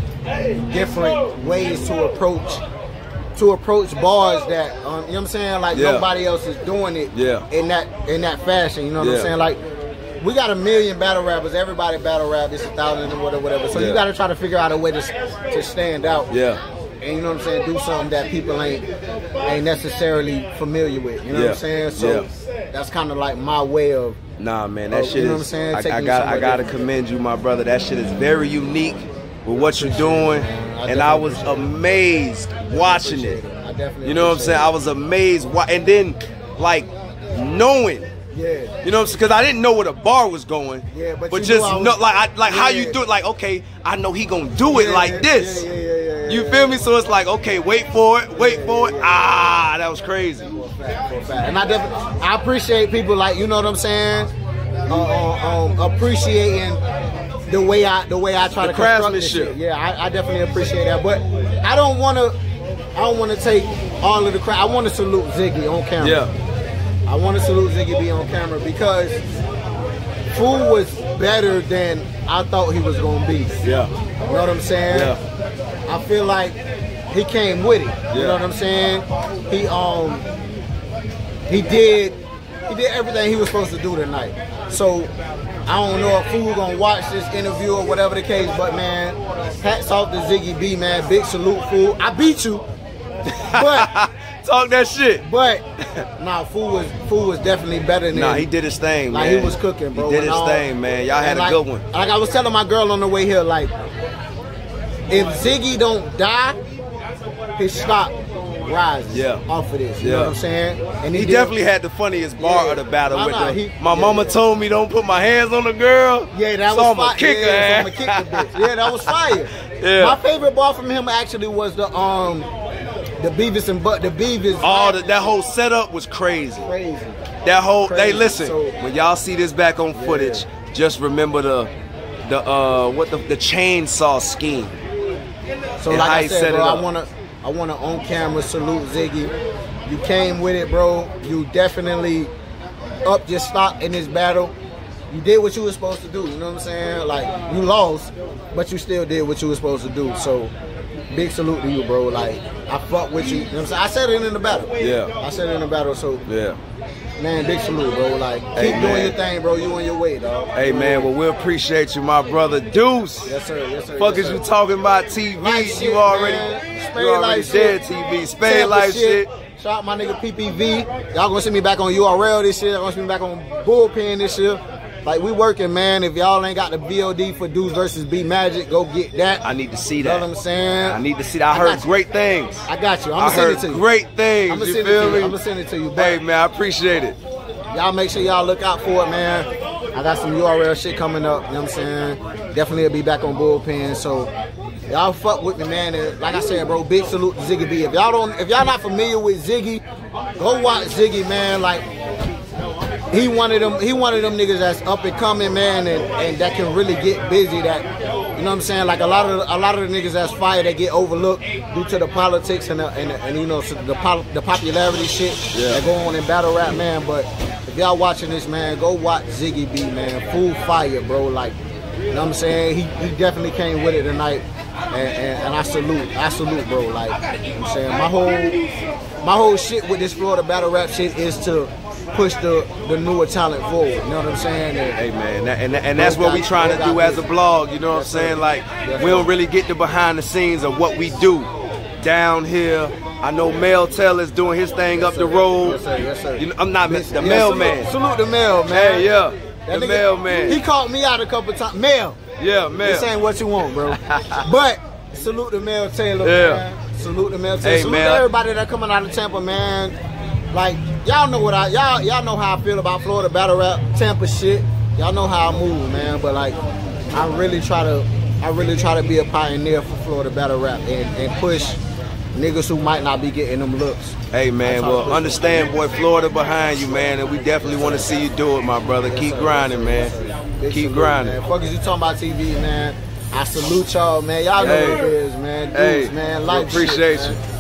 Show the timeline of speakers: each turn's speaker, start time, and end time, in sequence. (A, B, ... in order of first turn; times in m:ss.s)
0:00.6-0:02.6 A
0:03.4-0:09.6 A
0:05.7-0:06.0 B
0:07.1-0:07.4 B
0:09.0-0:09.3 B
0:10.2-0:16.3 A
0:13.7-0:14.0 B
0:16.3-0:16.6 B
0:17.0-0:18.9 A
0:19.4-0:24.2 A
0:21.3-0:22.3 B
0:24.4-0:33.4 B
0:24.9-0:26.7 A
0:29.8-0:31.7 A
0:32.7-0:34.7 A
0:34.0-0:38.1 B
0:38.3-0:38.8 A
0:38.8-0:45.7 B
0:40.9-0:43.0 A
0:44.7-0:46.8 A
0:46.3-0:50.5 B
0:48.3-0:49.2 A
0:50.5-0:54.3 A
0:54.9-0:56.8 A
0:57.5-1:02.4 A
0:58.6-0:59.6 B
1:02.9-1:06.3 A
1:06.0-1:06.3 B
1:07.0-1:09.2 A
1:10.3-1:13.6 A
1:13.6-1:13.9 B
1:14.3-1:15.2 A
1:14.9-1:15.2 B
1:15.9-1:16.6 A
1:17.1-1:20.2 A
1:18.1-1:18.4 B
1:21.5-1:25.1 A
1:25.6-1:32.6 A
1:33.3-1:35.2 B
1:33.5-1:33.9 A
1:35.2-1:35.6 A
1:36.2-1:38.5 A
1:38.1-1:41.8 B
1:39.1-1:40.7 A
1:41.2-1:43.7 A
1:45.1-1:46.6 A
1:47.6-1:51.5 A
1:49.1-1:49.4 B
1:50.0-1:50.3 B
1:51.1-2:00.2 B
1:52.4-1:54.4 A
1:56.3-2:02.5 A
2:03.2-2:05.3 A
2:04.6-2:06.7 B
2:06.6-2:07.2 A
2:07.4-2:11.7 B
2:07.8-2:08.8 A
2:09.9-2:10.5 A
2:12.2-2:14.8 B
2:15.8-2:19.3 A
2:15.9-2:16.8 B
2:19.8-2:22.3 A
2:23.0-2:24.5 A
2:25.1-2:30.5 A
2:31.1-2:36.2 A
2:34.8-2:35.1 B
2:36.3-2:36.6 B
2:37.2-2:41.1 A
2:38.5-2:39.2 B
2:40.5-2:43.3 B
2:43.2-2:44.4 A
2:44.0-2:49.3 B
2:45.4-2:47.8 A
2:48.4-2:59.4 A
2:59.4-3:00.3 B
3:00.0-3:01.8 A
3:00.8-3:05.4 B
3:02.6-3:03.8 A
3:04.5-3:06.2 A
3:06.0-3:07.2 B
3:07.7-3:14.3 A
3:14.9-3:19.8 A
3:20.4-3:21.8 A
3:23.1-3:41.6 A
3:35.5-3:35.8 B
3:42.1-3:48.6 A
3:49.2-3:55.0 A
3:55.0-4:01.5 B
3:56.0-3:57.2 A
3:57.9-3:59.3 A
4:02.0-4:05.8 B
4:04.9-4:09.1 A
4:06.4-4:07.9 B
4:08.7-4:10.6 B
4:09.6-4:12.2 A
4:12.4-4:13.1 B
4:12.8-4:19.9 A
4:13.9-4:14.5 B
4:16.2-4:16.6 B
4:17.6-4:18.3 B
4:20.5-4:26.6 A
4:27.1-4:31.8 A
4:32.3-4:35.7 A
4:34.3-4:40.1 B
4:37.6-4:38.1 A
4:39.0-4:47.4 A
4:40.7-4:41.4 B
4:44.6-4:45.1 B
4:45.7-4:47.4 B